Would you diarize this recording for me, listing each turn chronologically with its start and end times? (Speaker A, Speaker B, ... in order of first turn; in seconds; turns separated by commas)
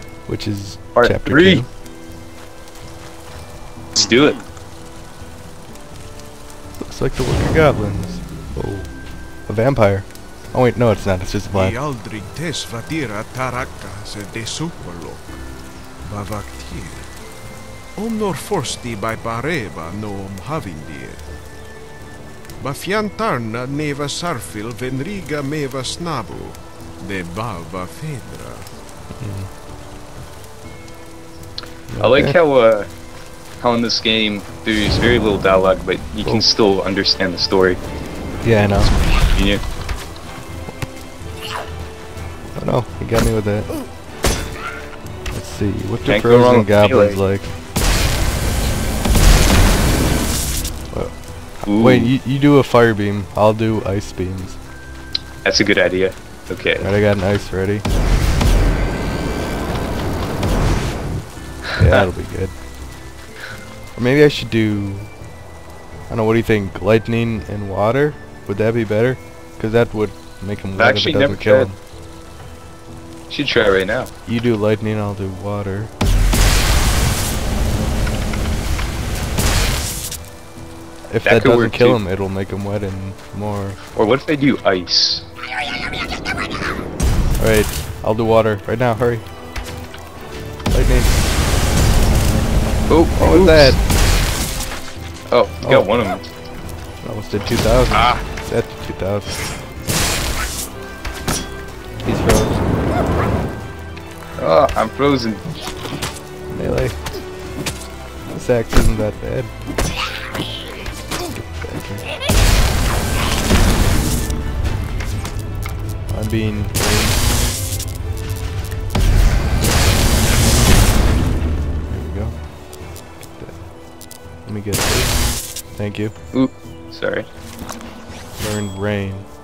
Speaker A: 0.3-1.7, Speaker B: 1.0-1.6, Speaker B: 4.0-4.4, Speaker A: 6.8-8.9, Speaker A: 9.5-11.8, Speaker C: 11.5-15.4, Speaker C: 16.1-17.1, Speaker C: 18.0-21.3, Speaker C: 22.6-28.7, Speaker A: 29.2-29.5, Speaker A: 31.9-32.4, Speaker B: 32.0-32.9, Speaker B: 33.6-37.8, Speaker A: 38.4-38.9, Speaker B: 39.2-39.6, Speaker A: 42.6-43.7, Speaker A: 45.3-47.5, Speaker B: 46.1-47.2, Speaker B: 51.6-52.1, Speaker A: 51.8-54.6, Speaker B: 55.5-56.9, Speaker A: 56.8-57.9, Speaker A: 61.8-62.5, Speaker A: 64.0-65.1, Speaker A: 66.1-71.8, Speaker B: 70.8-71.7, Speaker B: 73.3-74.1, Speaker A: 74.3-75.9, Speaker A: 81.1-83.8, Speaker B: 81.2-82.0, Speaker B: 84.0-85.2, Speaker A: 87.4-89.3, Speaker A: 90.7-91.2, Speaker B: 92.9-93.8, Speaker A: 93.2-93.8, Speaker B: 95.3-96.3, Speaker A: 95.6-95.9, Speaker A: 97.0-99.4, Speaker B: 97.9-98.2, Speaker A: 102.0-102.7, Speaker B: 104.4-105.5, Speaker A: 106.5-107.0, Speaker A: 108.3-109.5, Speaker A: 111.5-112.1, Speaker A: 116.1-117.2, Speaker A: 121.9-122.4, Speaker A: 123.2-123.6, Speaker A: 124.5-126.1, Speaker B: 126.3-127.3, Speaker A: 128.4-129.3